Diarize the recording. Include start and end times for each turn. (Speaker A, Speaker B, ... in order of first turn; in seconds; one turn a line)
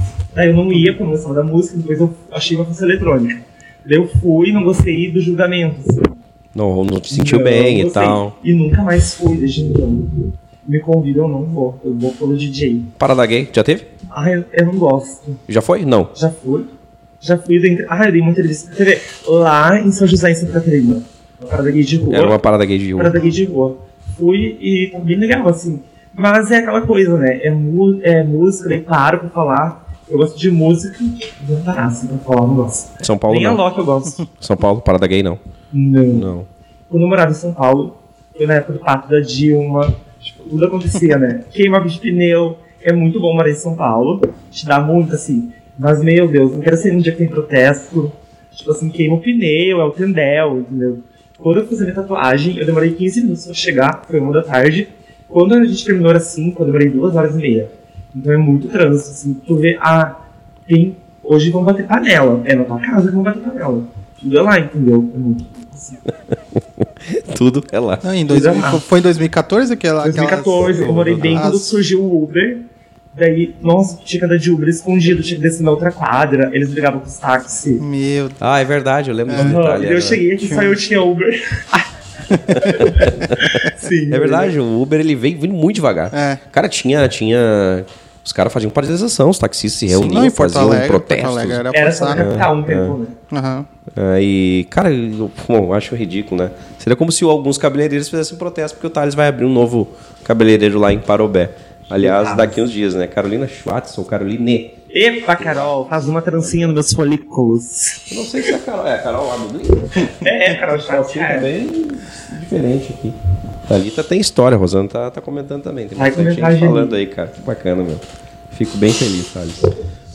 Speaker A: 0.3-6.1
Speaker B: 6.5-8.3
Speaker A: 7.1-12.9
Speaker B: 13.0-13.9
Speaker A: 14.1-15.4
Speaker B: 15.5-16.1
Speaker A: 16.1-16.7
Speaker A: 17.2-22.4
Speaker B: 22.1-23.3
Speaker A: 23.0-34.2
Speaker B: 33.0-33.6
Speaker B: 34.2-35.4
Speaker A: 35.7-36.3
Speaker B: 36.1-36.5
Speaker A: 36.9-66.0
Speaker B: 67.1-68.0
Speaker C: 68.0-71.7
Speaker A: 68.3-68.8
Speaker A: 70.0-77.8
Speaker B: 70.8-71.5
Speaker C: 77.8-78.4
Speaker B: 78.4-80.2
Speaker C: 79.3-79.6
Speaker A: 79.3-81.8
Speaker C: 80.4-80.8
Speaker C: 82.3-82.7
Speaker A: 82.5-84.5
Speaker B: 82.7-93.0
Speaker C: 86.1-86.4
Speaker C: 89.9-92.4
Speaker A: 91.7-93.2
Speaker C: 93.3-93.7
Speaker B: 93.9-104.8
Speaker A: 101.9-102.6
Speaker A: 104.9-108.5
Speaker B: 105.4-106.7
Speaker B: 108.1-113.2
Speaker A: 110.0-111.5
Speaker B: 113.7-119.7
Speaker A: 115.9-117.0